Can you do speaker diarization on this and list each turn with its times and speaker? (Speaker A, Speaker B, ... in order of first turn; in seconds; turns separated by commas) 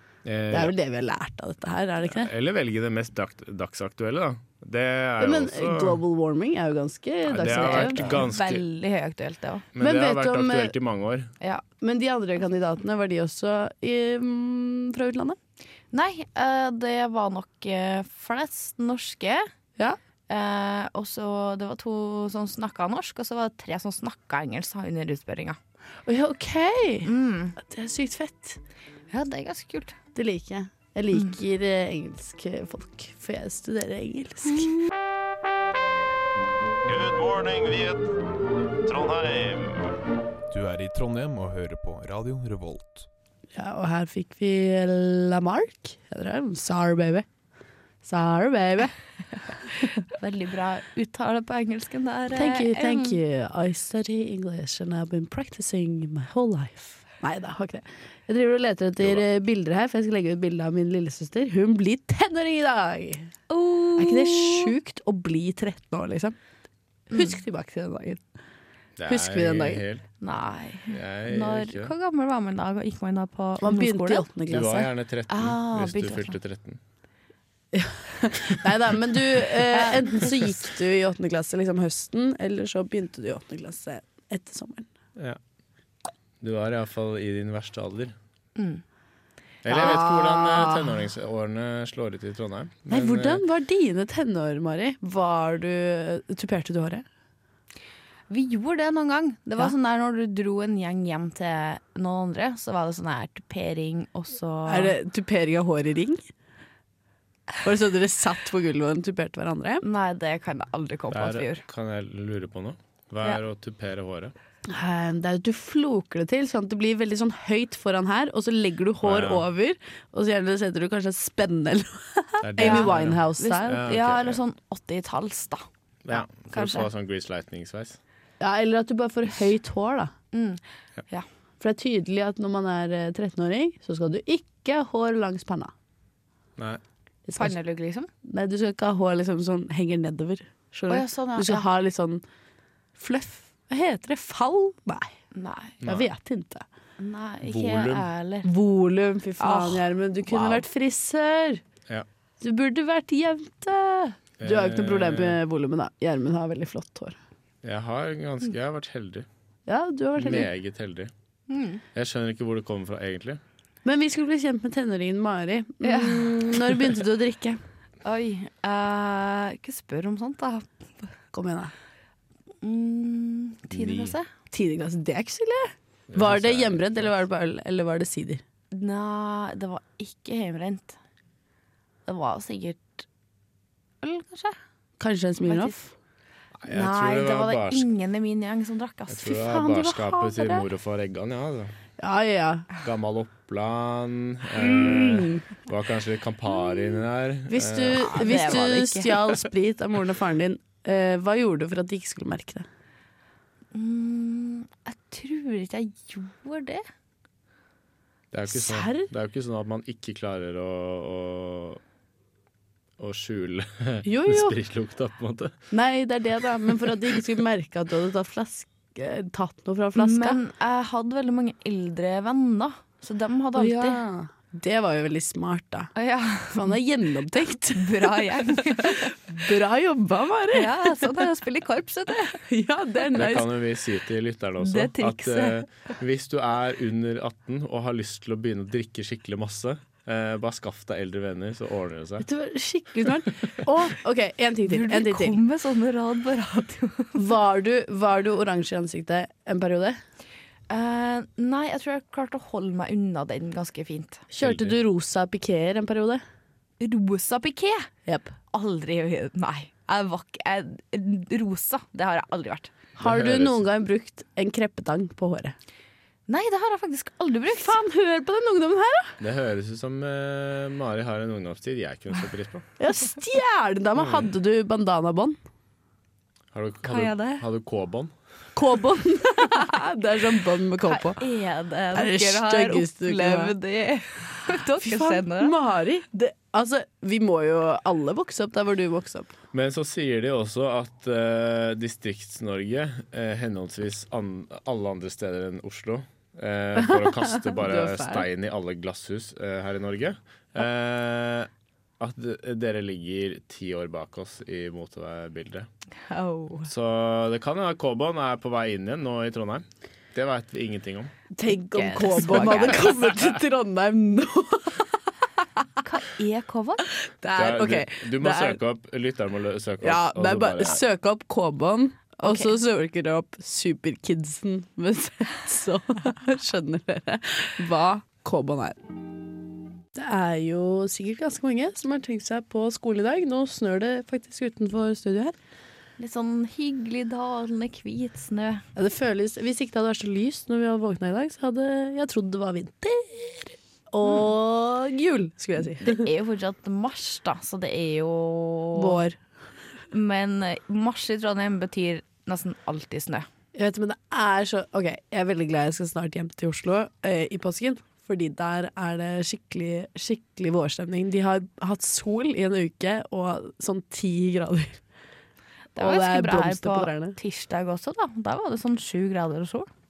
Speaker A: 0.2-0.7, Speaker B: 0.5-2.3, Speaker A: 2.0-6.0, Speaker B: 5.2-8.2, Speaker A: 7.3-8.6, Speaker C: 7.5-9.7, Speaker A: 9.8-11.3, Speaker B: 9.8-10.8, Speaker B: 11.8-15.4, Speaker C: 15.9-19.5, Speaker C: 20.3-25.6, Speaker B: 26.1-28.6, Speaker C: 27.1-27.6, Speaker C: 29.1-30.0, Speaker B: 30.1-34.7, Speaker A: 36.9-38.1, Speaker A: 38.8-39.9, Speaker D: 40.5-43.1, Speaker B: 43.6-47.3, Speaker B: 48.0-49.0, Speaker C: 50.1-53.2, Speaker B: 52.3-63.3, Speaker A: 59.0-59.2, Speaker C: 63.5-64.7, Speaker B: 64.0-66.4, Speaker B: 67.1-68.2, Speaker A: 69.0-70.1, Speaker B: 69.1-69.8, Speaker C: 70.2-74.3, Speaker A: 70.9-71.9, Speaker B: 73.6-74.9, Speaker A: 74.5-76.8, Speaker C: 75.3-76.4, Speaker B: 77.7-84.9, Speaker C: 79.7-80.3, Speaker A: 86.4-88.2, Speaker C: 88.6-88.8, Speaker A: 89.6-93.4, Speaker B: 89.7-90.9, Speaker B: 92.9-97.0, Speaker C: 98.3-104.9, Speaker B: 104.7-106.2, Speaker B: 107.6-109.8, Speaker C: 109.8-111.6, Speaker A: 111.1-114.3, Speaker B: 114.7-123.8, Speaker A: 119.0-119.5, Speaker A: 122.4-124.4, Speaker C: 122.6-126.9, Speaker A: 126.0-128.0, Speaker B: 128.4-130.1, Speaker C: 130.3-131.3, Speaker B: 131.6-135.7, Speaker B: 137.3-137.5, Speaker C: 137.3-138.1, Speaker B: 138.2-142.2, Speaker C: 140.9-141.7, Speaker B: 143.0-145.1, Speaker C: 145.3-145.8, Speaker A: 145.8-146.1, Speaker B: 145.8-146.7, Speaker C: 147.0-148.5, Speaker A: 147.4-148.1, Speaker B: 148.4-151.6, Speaker C: 149.4-150.7, Speaker B: 152.4-157.2, Speaker A: 154.4-155.4, Speaker A: 157.6-159.3, Speaker B: 159.7-160.5, Speaker A: 160.2-161.1, Speaker C: 161.5-161.8, Speaker A: 161.9-163.4, Speaker B: 163.8-167.6, Speaker C: 165.8-167.0, Speaker C: 168.0-171.1, Speaker B: 171.3-171.7, Speaker C: 172.6-174.3, Speaker A: 173.7-174.2, Speaker B: 174.5-178.4, Speaker A: 176.1-177.1, Speaker C: 178.7-181.0, Speaker C: 182.1-183.1, Speaker C: 184.0-184.6, Speaker B: 185.0-185.9, Speaker C: 185.5-185.8, Speaker A: 186.6-187.9, Speaker C: 186.7-190.5, Speaker A: 189.1-191.7, Speaker B: 192.0-192.7, Speaker A: 192.8-198.5, Speaker B: 194.6-195.5, Speaker B: 197.5-202.7, Speaker C: 197.9-199.2, Speaker C: 203.7-206.8, Speaker A: 208.3-211.8, Speaker B: 208.5-209.1, Speaker A: 213.0-215.7, Speaker B: 214.0-214.6, Speaker B: 215.7-220.4, Speaker C: 220.0-224.0, Speaker B: 223.6-225.9, Speaker C: 226.0-226.8, Speaker B: 226.5-231.1, Speaker C: 227.7-229.1, Speaker C: 230.5-232.4, Speaker B: 232.4-233.5, Speaker A: 233.1-242.3, Speaker C: 234.6-235.6, Speaker B: 242.2-245.4, Speaker C: 244.7-247.2, Speaker B: 247.2-250.0, Speaker C: 250.7-254.3, Speaker B: 254.3-256.2, Speaker A: 254.4-254.8, Speaker C: 256.8-257.9, Speaker B: 258.1-258.4, Speaker C: 258.5-262.7, Speaker A: 263.0-263.6, Speaker B: 263.0-265.6, Speaker C: 266.3-267.8, Speaker B: 267.5-269.2, Speaker A: 269.2-272.6, Speaker B: 272.8-275.4, Speaker A: 274.0-274.3, Speaker A: 276.5-278.1, Speaker C: 276.9-277.4, Speaker B: 278.6-281.2, Speaker C: 280.9-285.5, Speaker B: 281.9-283.5, Speaker B: 284.8-289.3, Speaker A: 289.5-305.7, Speaker B: 296.8-298.3, Speaker C: 306.1-306.7, Speaker A: 306.7-311.1, Speaker B: 311.4-314.9, Speaker C: 311.7-313.0, Speaker C: 315.8-316.9, Speaker B: 317.1-318.6, Speaker A: 317.4-320.8, Speaker B: 319.8-328.8, Speaker C: 322.2-322.5, Speaker B: 329.9-335.4, Speaker C: 336.0-338.6, Speaker B: 338.8-346.1, Speaker C: 344.1-344.3, Speaker C: 345.8-349.0, Speaker B: 348.7-349.2, Speaker C: 349.9-353.3, Speaker B: 353.6-364.8, Speaker C: 365.8-369.7, Speaker B: 365.8-367.2